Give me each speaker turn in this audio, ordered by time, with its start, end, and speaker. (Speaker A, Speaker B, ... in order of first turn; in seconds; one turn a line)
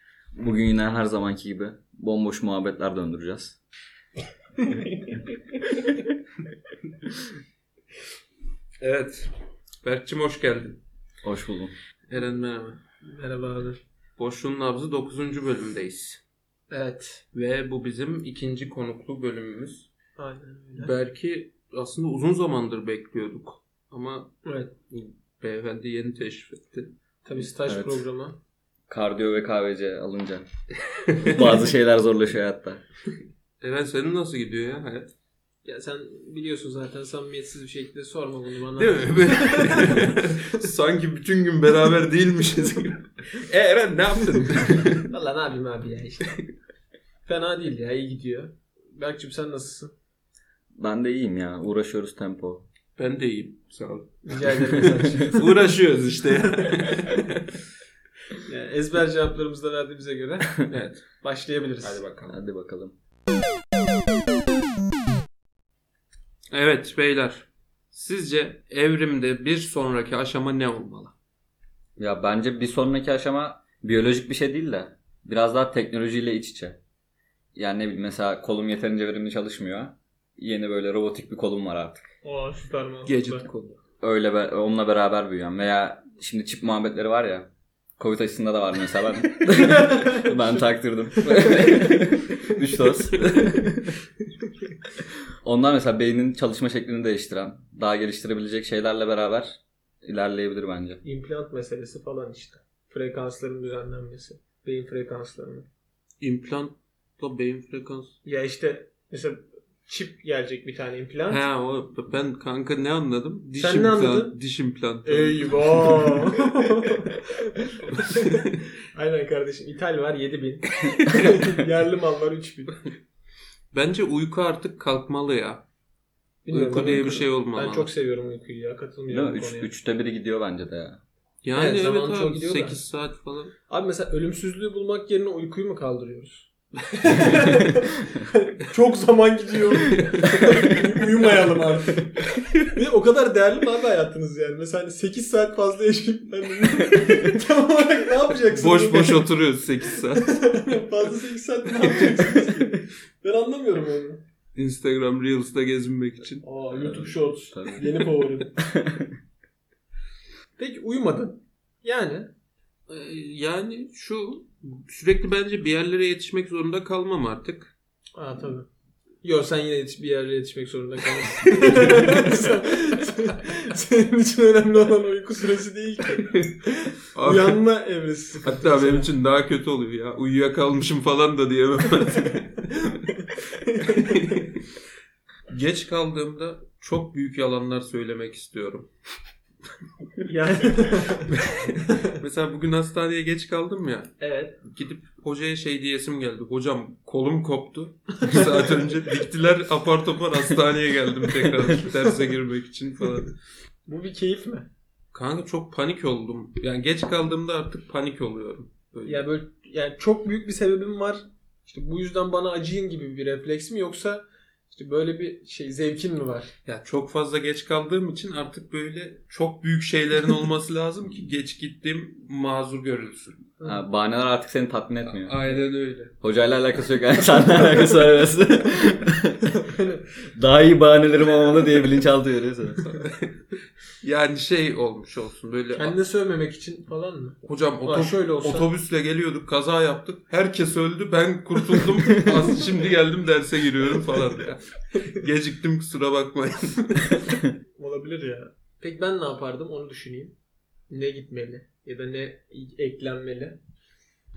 Speaker A: 0.3-3.6
Speaker B: 8.8-9.3
Speaker B: 9.8-10.8
Speaker A: 11.2-11.7
Speaker B: 12.1-12.8
Speaker C: 13.0-13.8
Speaker B: 14.2-16.2
Speaker C: 16.7-17.2
Speaker B: 17.3-19.9
Speaker C: 20.2-20.9
Speaker B: 20.8-24.4
Speaker C: 24.4-24.7
Speaker B: 24.9-26.9
Speaker C: 27.2-28.4
Speaker A: 27.6-28.0
Speaker A: 28.9-30.4
Speaker B: 31.1-31.4
Speaker A: 31.2-32.8
Speaker B: 33.6-35.1
Speaker C: 35.6-40.2
Speaker B: 38.8-45.1
Speaker C: 45.1-46.4
Speaker C: 47.2-49.9
Speaker A: 50.7-52.6
Speaker B: 53.0-57.4
Speaker C: 54.2-55.6
Speaker A: 54.4-55.3
Speaker C: 58.4-60.6
Speaker B: 60.7-61.1
Speaker C: 61.2-62.0
Speaker B: 61.8-62.4
Speaker A: 62.2-62.9
Speaker B: 66.5-71.1
Speaker A: 72.0-76.8
Speaker A: 77.5-82.1
Speaker C: 82.2-83.4
Speaker B: 83.0-83.8
Speaker A: 84.0-93.6
Speaker C: 89.5-90.3
Speaker B: 91.3-91.7
Speaker B: 93.2-93.6
Speaker A: 95.4-101.0
Speaker C: 101.0-105.7
Speaker B: 106.2-108.2
Speaker C: 108.2-111.4
Speaker B: 111.3-116.3
Speaker C: 113.5-114.3
Speaker C: 115.0-122.8
Speaker B: 117.8-118.6
Speaker B: 123.7-125.6
Speaker C: 126.4-129.7
Speaker B: 126.5-127.9
Speaker A: 129.1-131.0
Speaker B: 131.4-133.5
Speaker C: 131.5-132.8
Speaker C: 133.7-149.3
Speaker B: 139.9-140.6
Speaker B: 148.5-150.4
Speaker C: 149.9-154.2
Speaker B: 151.9-152.2
Speaker B: 154.5-156.4
Speaker C: 156.4-158.5
Speaker A: 156.7-159.1
Speaker C: 160.6-162.3
Speaker B: 162.9-167.7
Speaker C: 168.1-168.7
Speaker C: 169.2-179.1
Speaker B: 177.1-177.6
Speaker B: 178.4-182.8
Speaker C: 182.8-184.5
Speaker B: 183.9-184.6
Speaker B: 185.5-188.9
Speaker C: 190.2-192.1
Speaker B: 191.3-203.3
Speaker C: 194.2-194.6
Speaker C: 198.2-198.9
Speaker C: 203.9-204.7
Speaker B: 205.1-209.2
Speaker C: 209.0-216.5
Speaker B: 216.7-223.4
Speaker A: 223.6-225.4
Speaker B: 225.0-226.1
Speaker A: 226.2-229.6
Speaker C: 229.5-230.1
Speaker A: 230.3-232.9
Speaker B: 232.9-233.2
Speaker B: 234.0-235.9
Speaker C: 235.7-238.7
Speaker B: 237.4-247.3
Speaker C: 247.8-250.3
Speaker C: 250.9-253.6